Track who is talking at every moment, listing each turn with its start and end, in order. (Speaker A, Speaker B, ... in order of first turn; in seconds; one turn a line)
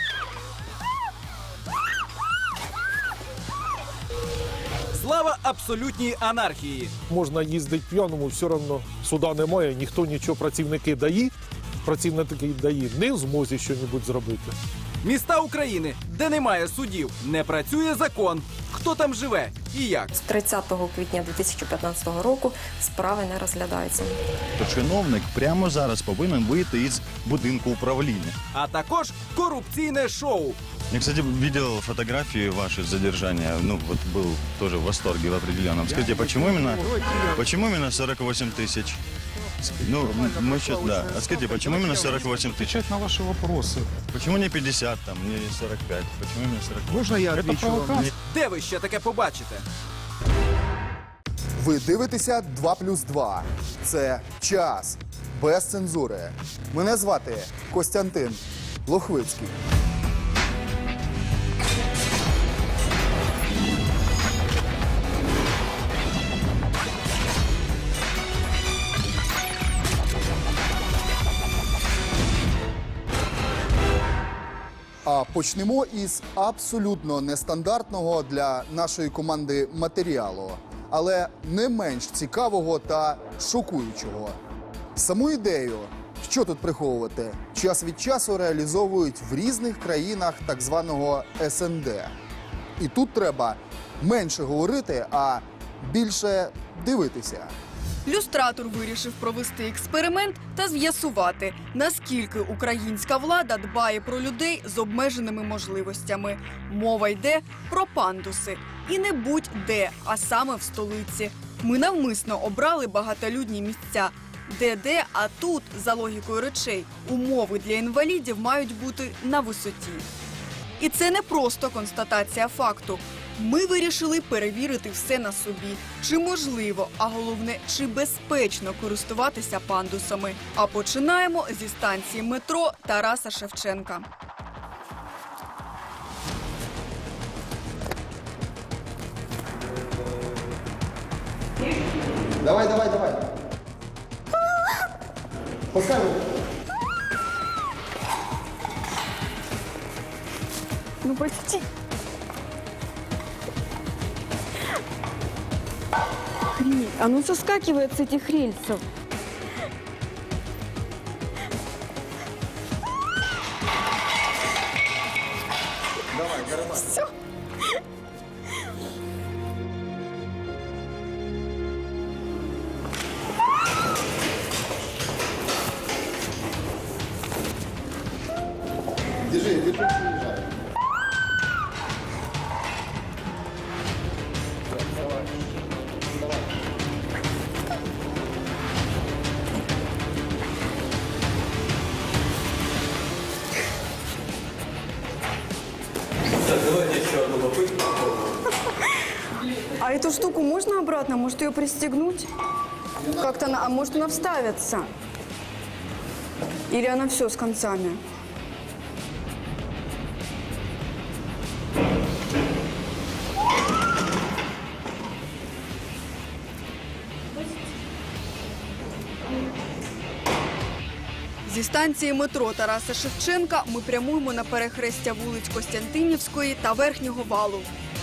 Speaker A: 4.9-6.9
Speaker B: 7.1-14.5
Speaker A: 15.0-20.1
Speaker C: 20.1-24.1
Speaker D: 24.6-28.4
Speaker A: 28.5-30.6
Speaker D: 30.9-39.0
Speaker E: 35.9-37.4
Speaker D: 39.6-42.8
Speaker E: 39.9-43.9
Speaker D: 44.1-48.1
Speaker E: 46.9-48.1
Speaker A: 48.2-49.6
Speaker F: 51.6-59.5
Speaker F: 75.0-84.4
Speaker F: 84.9-92.1
Speaker F: 92.8-97.5
Speaker G: 98.0-120.0
Speaker G: 120.8-134.0
Speaker F: 142.4-143.2
Speaker F: 145.7-146.2
Speaker H: 151.0-151.7
Speaker H: 156.5-158.8
Speaker F: 166.3-166.6
Speaker H: 166.7-167.1
Speaker F: 179.3-180.2
Speaker H: 199.8-202.3
Speaker H: 203.2-204.9
Speaker H: 206.7-208.0
Speaker G: 221.4-227.7